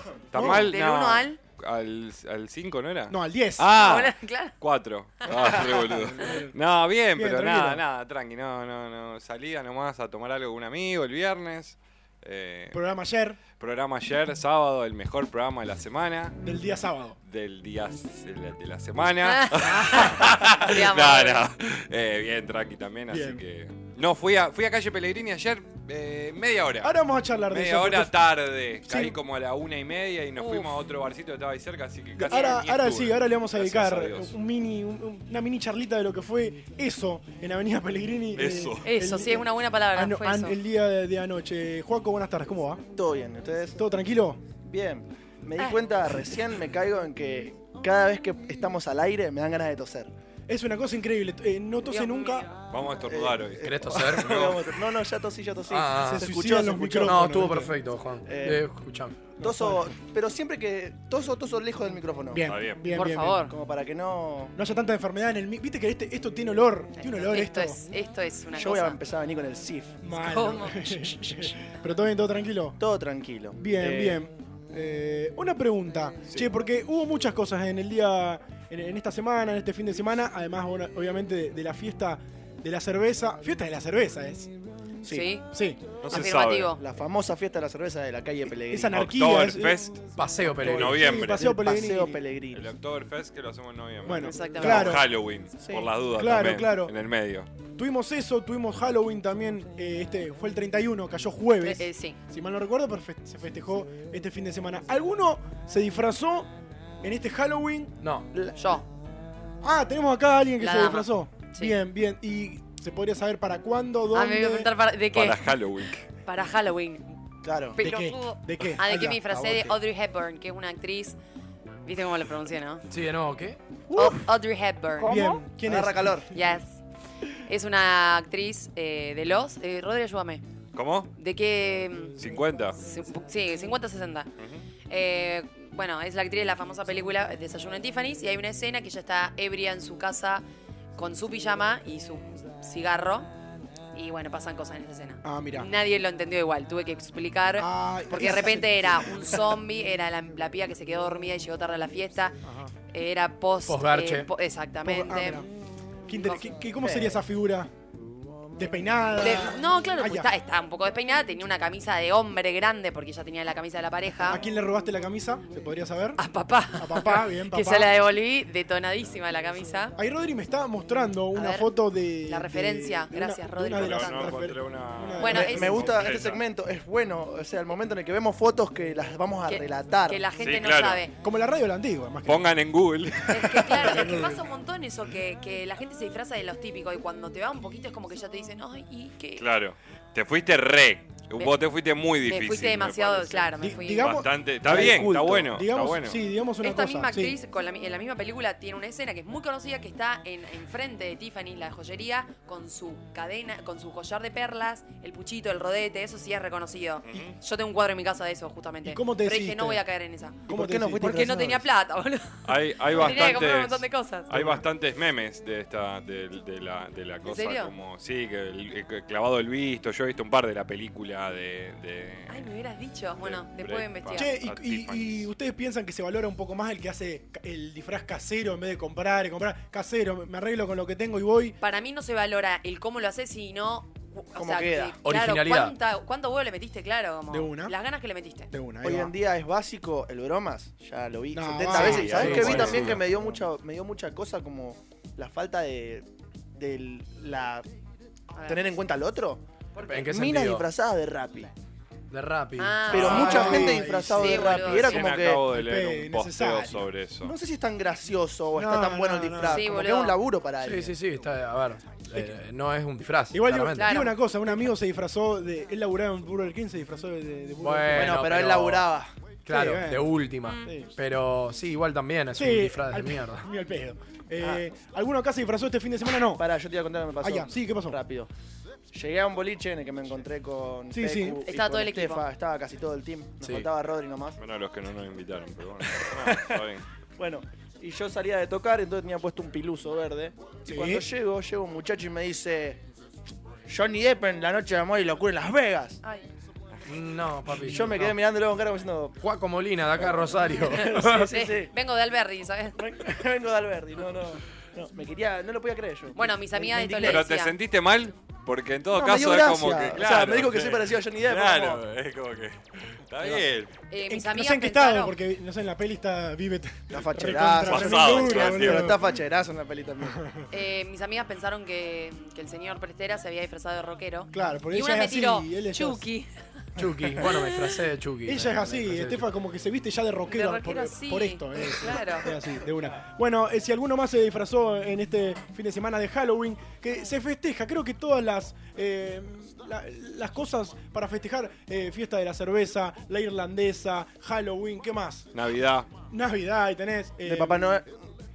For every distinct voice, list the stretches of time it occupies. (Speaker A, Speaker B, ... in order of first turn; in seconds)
Speaker A: 0.3-12.8, 13.6-16.4, 17.3-26.9, 27.5-34.3, 38.4-38.9, 52.7-54.8, 62.5-62.9, 86.0-86.8, 88.9-90.0, 90.6-91.5, 92.5-97.5, 115.1-116.0, 130.8-131.1, 132.2-132.8, 134.4-134.7, 173.7-176.4, 180.4-181.0, 182.3-184.2, 189.4-196.2, 207.1-207.4, 212.4-222.5, 223.2-225.3, 241.7-243.0, 252.9-253.5, 254.7-257.4, 284.4-286.8, 307.0-313.7, 317.6-319.0, 345.3-345.9
Speaker B: 0.3-0.7, 3.1-3.7, 5.5-6.5, 7.1-7.8, 12.7-13.4, 16.4-17.2, 23.1-23.4, 26.8-28.3, 28.9-29.2, 32.2-42.8, 43.8-44.5, 50.5-52.5, 56.1-57.7, 59.4-59.9, 62.3-63.5, 64.6-67.8, 70.0-72.8, 73.6-84.5, 85.5-85.8, 88.7-89.9, 90.6-92.2, 94.0-95.1, 96.2-96.9, 97.8-106.5, 107.0-108.0, 109.6-114.7, 117.8-119.2, 123.9-124.3, 125.0-126.2, 145.2-145.7, 147.6-149.6, 152.4-152.7, 154.8-155.5, 156.1-157.7, 158.6-160.3, 164.2-166.2, 166.8-167.9, 170.0-175.9, 181.2-184.4, 193.6-197.4, 208.8-209.8, 210.5-211.3, 214.3-214.7, 224.1-231.6, 237.3-237.8, 238.5-239.2, 241.3-243.3, 252.9-254.6, 255.4-256.9, 258.5-259.6, 263.3-268.3, 269.5-270.1, 272.4-276.4, 277.2-278.0, 280.9-281.4, 290.7-291.1, 314.1-319.1, 320.0-320.4, 324.3-326.1, 328.3-345.3, 346.1-347.8
Speaker C: 0.4-1.4, 3.8-4.5, 19.2-21.4, 30.4-30.8, 38.8-40.5, 51.8-52.5, 62.9-63.5, 67.0-69.0, 70.1-71.3, 85.1-85.5, 86.1-86.8, 94.1-95.0, 101.6-102.2, 108.6-108.8, 110.6-111.8, 114.1-115.5, 116.3-117.0, 117.7-121.2, 121.9-122.8, 124.0-125.3, 126.3-126.8, 127.5-130.4, 131.2-132.2, 132.8-134.3, 134.9-140.4, 141.0-143.3, 143.9-155.4, 156.1-156.4, 159.2-164.4, 166.2-169.9, 171.3-171.7, 172.3-174.4, 175.2-175.9, 179.5-181.1, 183.3-189.4, 192.2-194.2, 196.6-210.4, 211.0-214.3, 217.2-217.7, 222.3-224.4, 231.6-238.5, 248.3-248.8, 249.8-250.0, 252.6-255.2, 259.4-260.2, 263.8-264.2, 281.4-282.2, 301.3-302.8, 306.1-307.5, 313.9-315.1, 320.5-326.3, 330.3-332.3
Speaker D: 42.9-43.8, 44.5-50.1, 53.0-57.2, 58.3-58.6, 59.4-62.5, 63.5-64.5, 68.5-70.0, 72.8-74.2, 86.8-89.1, 91.1-92.7, 95.6-95.9, 108.3-108.6, 117.4-117.8, 119.3-119.7, 125.6-126.3, 156.8-157.2, 175.4-180.2, 210.5-211.7, 234.4-235.0, 238.8-247.7, 248.5-249.4, 250.1-251.5, 252.9-255.5, 257.2-261.0, 267.9-269.1, 276.4-278.3, 278.9-284.4, 286.1-286.6, 287.2-292.8, 293.7-296.0, 297.5-299.2, 300.0-301.7, 302.8-307.2, 308.9-311.8, 316.9-320.2, 347.3-347.9
Speaker E: 53.6-54.4, 55.7-56.3, 57.0-59.2, 90.2-91.0, 108.0-108.3, 122.9-123.6, 153.7-154.3, 235.0-235.7, 242.0-243.0, 249.9-250.7, 252.1-253.6, 260.6-263.9, 267.6-268.9, 269.5-273.4, 283.4-283.7, 296.9-298.2, 299.2-301.3, 326.8-329.3